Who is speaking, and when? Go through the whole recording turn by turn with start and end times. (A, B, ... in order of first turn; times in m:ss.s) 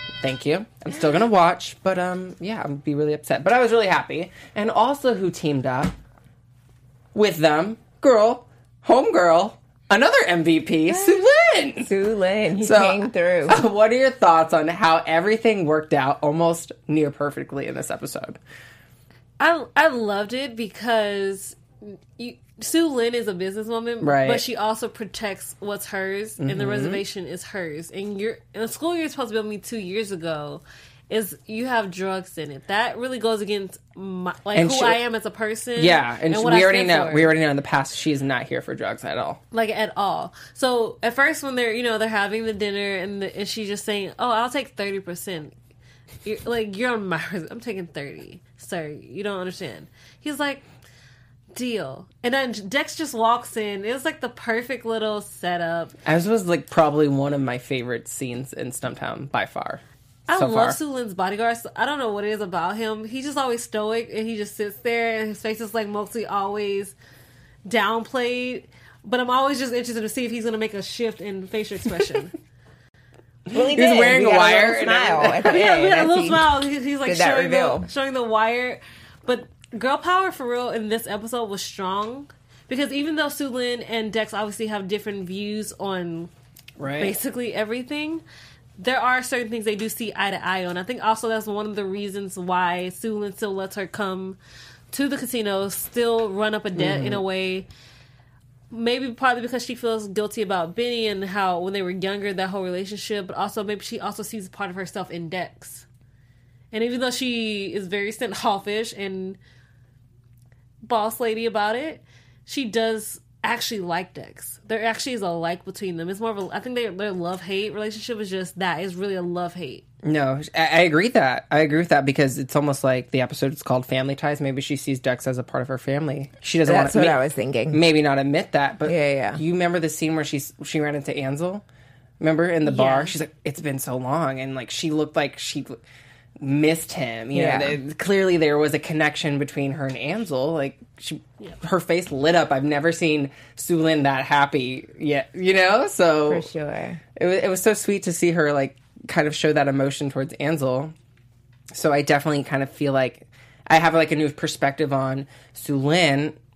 0:00.2-0:06.0 A
0:07.2-0:11.9 A
0:11.8-0:13.6 B
0:12.6-0:18.4 A
0:19.4-0:37.3 C
0:24.0-0:24.4 A
0:26.4-0:27.0 A
0:34.6-0:35.0 A
0:35.8-0:39.4 A
0:39.5-0:45.5 C
0:46.2-0:50.6 C
0:51.5-0:55.9 C
0:56.0-1:00.8 A
1:00.3-1:07.0 C
1:07.6-1:12.4 C
1:13.5-1:17.9 B
1:13.5-1:15.5 A
1:15.4-1:26.3 C
1:26.8-1:27.2 A
1:27.0-1:28.2 C
1:28.8-1:34.4 C
1:34.9-1:37.7 C
1:36.8-1:37.2 A
1:38.7-1:45.9 C
1:46.7-1:49.4 C
1:50.8-1:59.8 C
2:00.0-2:07.2 A
2:06.6-2:07.8 B
2:07.7-2:11.6 A
2:08.8-2:09.4 B
2:12.2-2:15.8 A
2:12.6-2:13.1 C
2:16.4-2:26.5 A
2:17.3-2:17.8 B
2:26.3-2:27.0 B
2:27.2-2:30.9 A
2:31.7-2:36.4 A